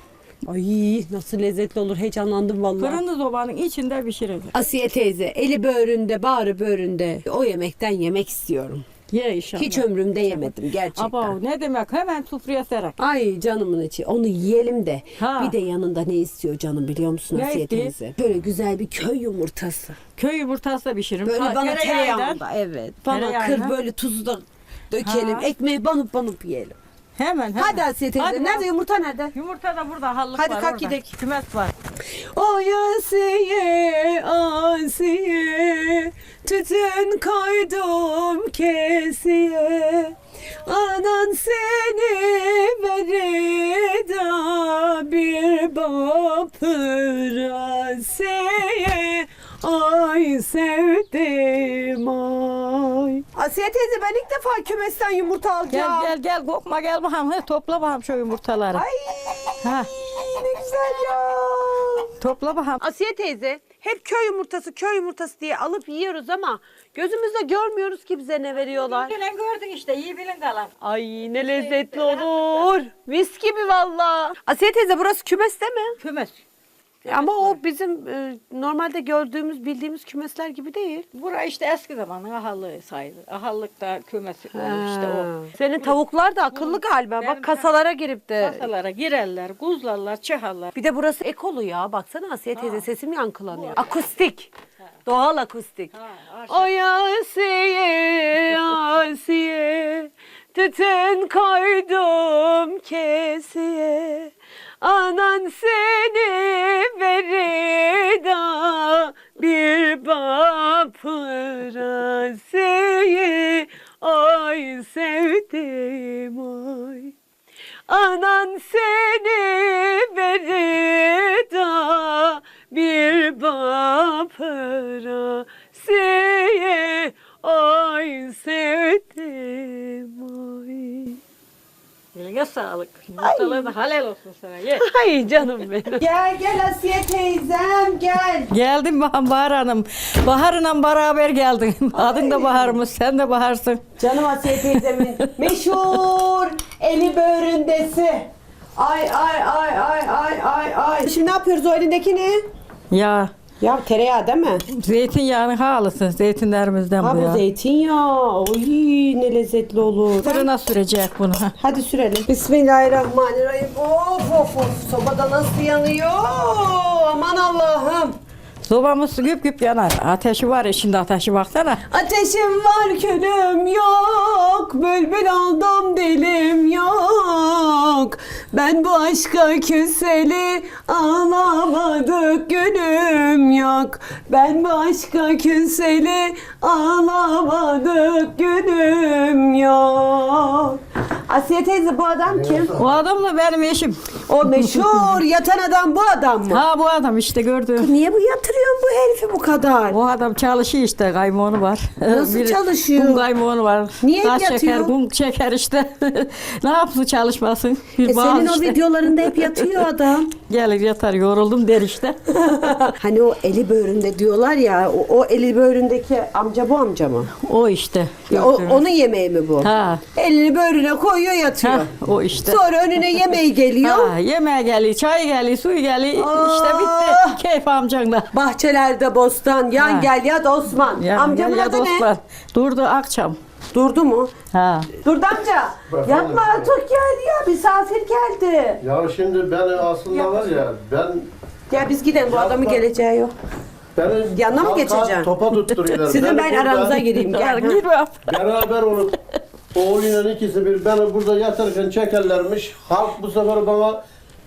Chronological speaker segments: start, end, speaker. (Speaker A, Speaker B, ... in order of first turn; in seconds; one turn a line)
Speaker A: 0.4-3.0
Speaker B: 2.8-4.5
Speaker A: 4.5-8.8
Speaker B: 9.1-13.0
Speaker A: 9.6-11.3
Speaker A: 13.0-20.0
Speaker B: 15.2-15.5
Speaker B: 17.3-17.9
Speaker B: 20.2-22.4
Speaker A: 21.2-26.8
Speaker B: 23.1-23.7
Speaker B: 25.0-25.5
Speaker B: 27.2-28.7
Speaker A: 27.6-29.3
Speaker B: 29.3-31.7
Speaker A: 30.4-31.1
Speaker A: 32.1-56.1
Speaker B: 55.7-58.8
Speaker A: 58.7-62.1
Speaker B: 59.6-59.9
Speaker B: 62.2-62.8
Speaker A: 62.8-69.1
Speaker B: 68.7-70.8
Speaker A: 70.8-76.0
Speaker B: 71.3-72.6
Speaker B: 76.0-76.4
Speaker A: 77.0-81.0
Speaker B: 77.1-77.5
Speaker B: 81.1-85.3
Speaker A: 84.5-88.6
Speaker B: 86.5-87.7
Speaker B: 88.4-90.7
Speaker A: 90.7-94.5
Speaker B: 92.5-92.8
Speaker A: 95.0-95.9
Speaker B: 95.9-96.7
Speaker A: 96.5-117.1
Speaker A: 117.9-131.2
Speaker B: 132.1-134.8
Speaker A: 133.2-133.7
Speaker A: 134.8-138.5
Speaker B: 138.5-146.0
Speaker A: 141.9-142.8
Speaker A: 144.0-152.4
Speaker B: 152.9-153.3
Speaker A: 153.6-154.6
Speaker B: 154.7-157.4
Speaker A: 157.0-160.5
Speaker B: 160.1-161.5
Speaker A: 161.6-168.2
Speaker B: 168.6-171.8
Speaker A: 171.9-192.7
Speaker C: 192.3-193.0
Speaker B: 192.8-194.9
Speaker A: 194.3-196.6
Speaker B: 196.5-197.9
Speaker A: 197.8-200.0
Speaker B: 199.9-209.8
Speaker A: 202.1-203.2
Speaker A: 204.0-204.9
Speaker A: 208.0-210.3
Speaker B: 210.5-212.2
Speaker A: 212.3-217.3
Speaker B: 217.4-218.8
Speaker A: 218.3-224.1
Speaker B: 219.6-220.0
Speaker B: 221.6-228.3
Speaker A: 226.1-227.4
Speaker A: 228.3-232.1
Speaker B: 229.8-230.1
Speaker B: 230.9-233.4
Speaker A: 233.7-234.3
Speaker B: 234.5-234.9
Speaker A: 235.0-238.8
Speaker C: 235.9-236.7
Speaker C: 238.8-241.3
Speaker A: 241.7-243.3
Speaker C: 242.2-242.8
Speaker C: 243.9-247.1
Speaker A: 244.3-245.3
Speaker A: 246.0-247.8
Speaker B: 247.1-248.2
Speaker C: 248.2-249.1
Speaker C: 249.7-254.0